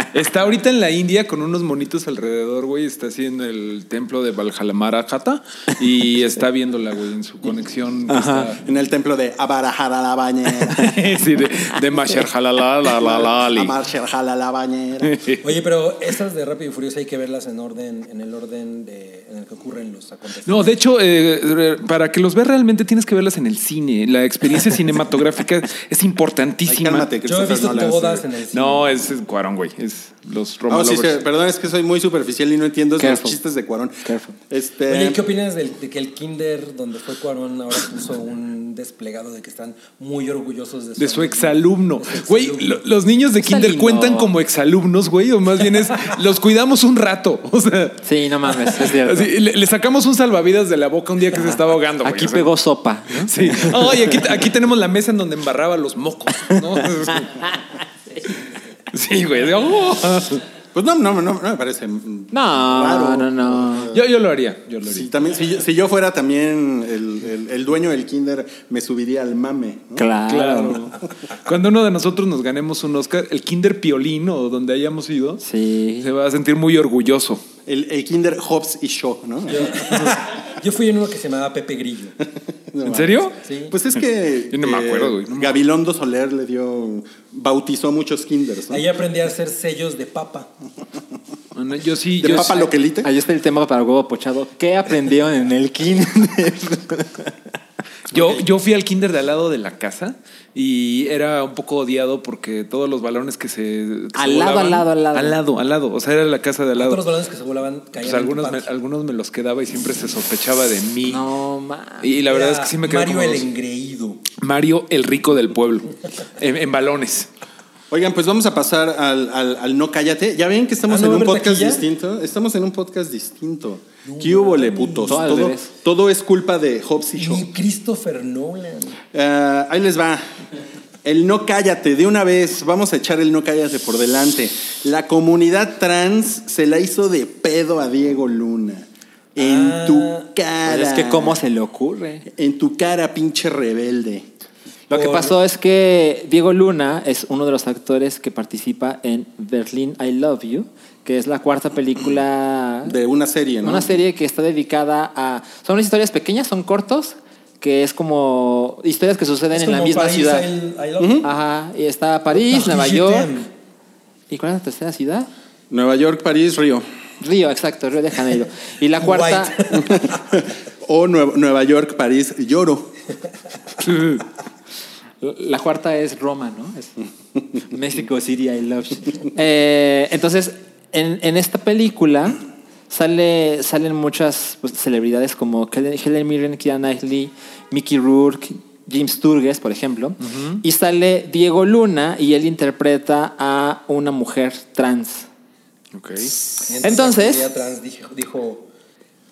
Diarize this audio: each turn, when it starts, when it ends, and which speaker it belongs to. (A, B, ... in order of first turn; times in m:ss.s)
0:00.1-0:08.6 A
0:08.1-0:08.5 B
0:08.6-0:11.0 C
0:10.7-0:13.8 A
0:12.9-0:15.2 C
0:15.0-0:15.4 A
0:15.4-0:20.7 D
0:20.4-0:27.1 A
0:26.6-0:28.2 C
0:27.2-0:29.0 D
0:28.5-0:31.2 A
0:30.7-0:35.2 C
0:33.0-0:33.4 B
0:34.0-0:34.4 B
0:34.9-0:42.8 D
0:41.0-0:52.5 A
0:43.4-0:44.3 B
0:48.0-0:49.3 B
0:51.3-0:54.1 B
0:53.2-0:57.5 A
0:58.9-1:00.4 A
1:00.7-1:04.0 C
1:02.3-1:03.9 B
1:03.9-1:05.1 A
1:04.8-1:10.1 C
1:10.0-1:10.9 B
1:10.3-1:15.4 A
1:15.4-1:16.1 B
1:16.0-1:17.4 A
1:17.6-1:20.1 C
1:19.5-1:22.2 D
1:22.7-1:28.8 C
1:22.8-1:23.4 A
1:23.4-1:23.7 D
1:24.5-1:25.6 A
1:28.7-1:30.5 D
1:31.5-1:32.7 A
1:32.2-1:33.1 C
1:33.0-1:37.3 B
1:38.1-1:47.0 A
1:44.1-1:45.4 B
1:46.8-1:48.7 D
1:48.0-1:51.3 A
1:51.0-1:52.2 B
1:52.0-1:53.4 A
1:52.3-1:54.2 D
1:54.4-1:57.3 A
1:57.9-2:07.5 C
2:00.9-2:01.8 D
2:04.0-2:05.4 D
2:05.0-2:05.7 B
2:07.2-2:09.0 D
2:09.1-2:10.2 C
2:11.0-2:21.4 C
2:19.4-2:20.3 D
2:20.6-2:22.2 B
2:22.3-2:24.3 C
2:24.9-2:33.0 B
2:24.9-2:25.4 D
2:32.8-2:34.0 C
2:33.6-2:40.5 B
2:39.5-2:41.3 D
2:41.0-2:41.3 C
2:41.2-2:43.3 B
2:42.3-2:43.5 D
2:44.3-2:45.3 B
2:45.7-2:46.8 C
2:47.2-2:49.8 B
2:49.0-2:50.2 D
2:49.8-2:52.9 C
2:53.8-2:54.2 A
2:55.2-2:57.0 B
2:57.6-3:15.3 B
3:10.2-3:10.6 A
3:15.9-3:16.4 A
3:16.7-3:18.6 D
3:16.8-3:17.4 B